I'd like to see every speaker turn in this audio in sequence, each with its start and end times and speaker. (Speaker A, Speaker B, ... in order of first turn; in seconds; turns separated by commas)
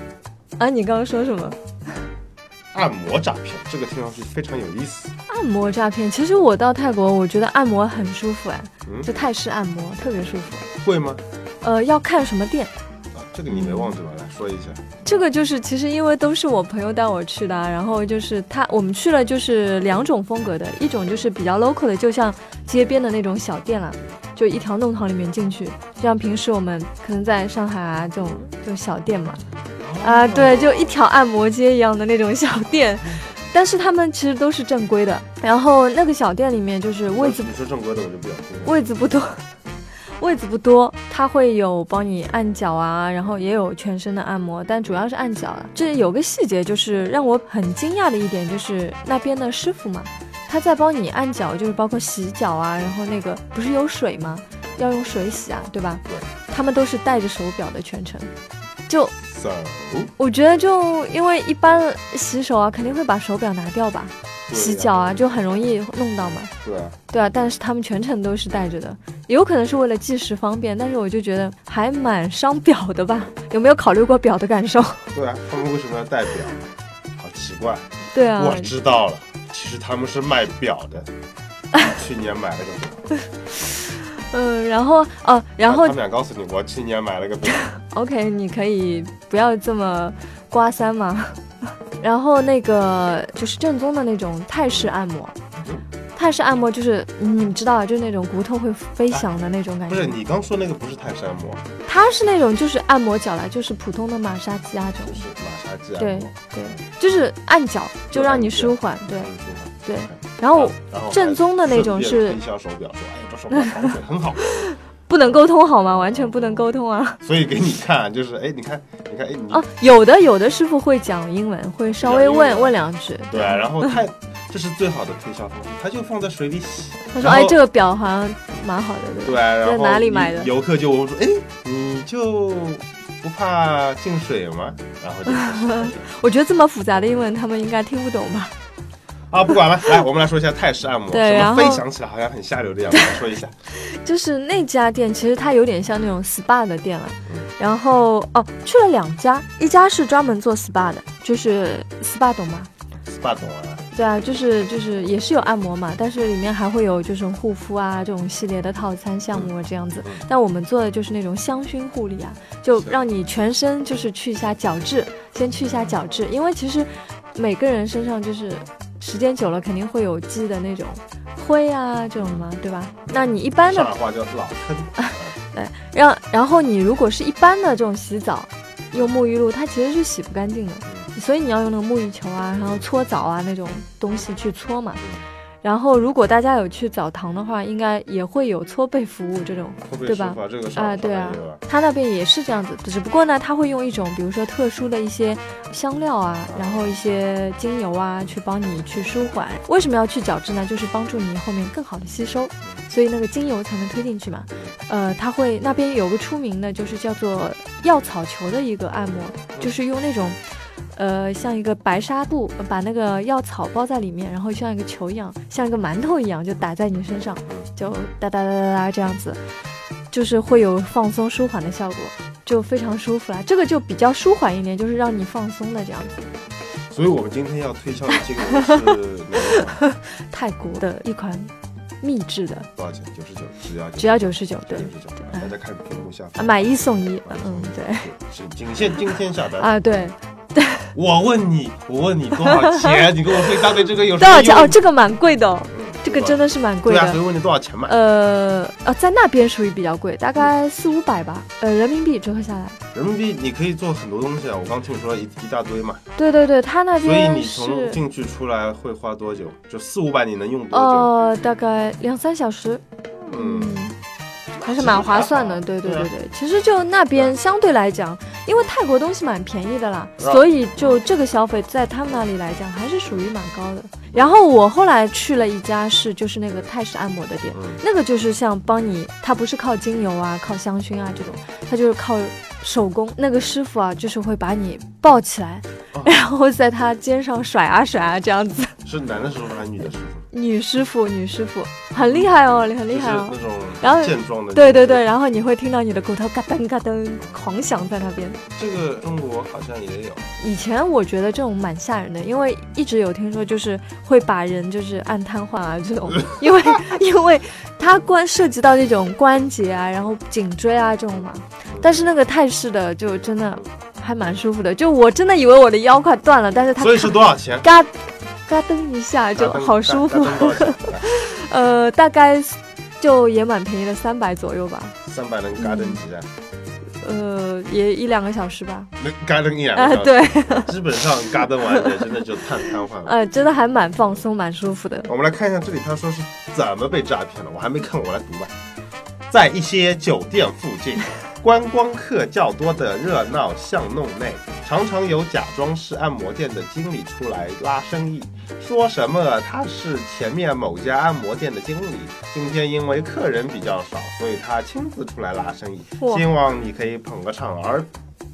Speaker A: 0.6-1.6, Speaker B: 2.7-5.1, Speaker A: 5.3-10.7, Speaker B: 8.8-9.1, Speaker B: 10.8-11.2, Speaker A: 11.6-12.7, Speaker B: 13.1-15.1, Speaker A: 13.5-13.9, Speaker A: 15.0-29.4, Speaker B: 29.8-31.1, Speaker A: 30.0-37.5, Speaker B: 33.0-33.3, Speaker B: 37.1-38.8, Speaker A: 38.6-39.4, Speaker A: 40.2-58.3, Speaker B: 59.1-60.1, Speaker A: 60.2-66.5, Speaker B: 64.5-65.1, Speaker B: 66.6-67.0, Speaker A: 67.1-75.0, Speaker B: 75.1-76.6, Speaker B: 77.2-81.1, Speaker A: 78.1-78.7, Speaker B: 81.8-83.1, Speaker A: 83.7-86.0, Speaker B: 85.6-87.6, Speaker A: 87.7-91.4, Speaker A: 92.0-95.3, Speaker B: 95.5-95.8, Speaker A: 96.1-100.2, Speaker B: 99.9-101.7, Speaker A: 101.8-105.2, Speaker B: 105.0-106.8, Speaker A: 106.0-109.3, Speaker B: 108.1-114.5, Speaker A: 109.8-112.4, Speaker A: 113.5-113.9, Speaker A: 114.4-117.2, Speaker B: 115.9-116.7, Speaker B: 117.2-119.6, Speaker A: 119.5-123.9, Speaker B: 121.9-122.8, Speaker B: 123.3-127.6, Speaker A: 127.1-130.5, Speaker B: 129.2-136.0, Speaker A: 135.3-138.5, Speaker B: 139.3-143.5, Speaker A: 141.1-141.8, Speaker A: 143.7-152.7, Speaker B: 153.0-153.9, Speaker A: 153.9-173.9, Speaker B: 162.8-163.0, Speaker B: 172.2-172.4, Speaker B: 173.1-175.3, Speaker A: 175.0-185.0, Speaker B: 178.9-179.2, Speaker A: 185.6-210.4, Speaker B: 189.9-191.6, Speaker B: 196.5-196.9, Speaker A: 210.9-219.4, Speaker A: 220.1-226.1, Speaker B: 226.9-229.8, Speaker A: 228.5-228.8, Speaker A: 229.4-232.7, Speaker B: 232.8-239.7, Speaker A: 234.0-235.4, Speaker A: 236.4-238.1, Speaker A: 239.6-240.9, Speaker B: 240.9-244.8, Speaker A: 242.4-243.5, Speaker A: 244.2-247.2, Speaker B: 245.7-247.9, Speaker A: 247.8-252.8, Speaker B: 252.9-256.0, Speaker A: 256.2-258.0, Speaker B: 257.0-261.1, Speaker A: 260.7-264.0, Speaker B: 263.2-263.9, Speaker B: 264.6-266.1, Speaker A: 264.6-288.7, Speaker B: 270.2-271.0, Speaker B: 277.5-277.8, Speaker B: 288.8-290.3, Speaker A: 290.3-298.4, Speaker B: 292.0-292.3, Speaker B: 292.9-295.1, Speaker B: 298.5-300.3, Speaker A: 300.4-317.9, Speaker B: 316.8-317.6, Speaker A: 318.5-325.0, Speaker B: 319.4-321.1, Speaker B: 325.0-326.3, Speaker A: 325.6-326.0, Speaker A: 327.0-328.9, Speaker B: 329.0-333.1, Speaker A: 329.7-330.8, Speaker A: 333.0-335.1, Speaker B: 335.1-338.5, Speaker B: 339.3-357.9, Speaker A: 356.0-356.2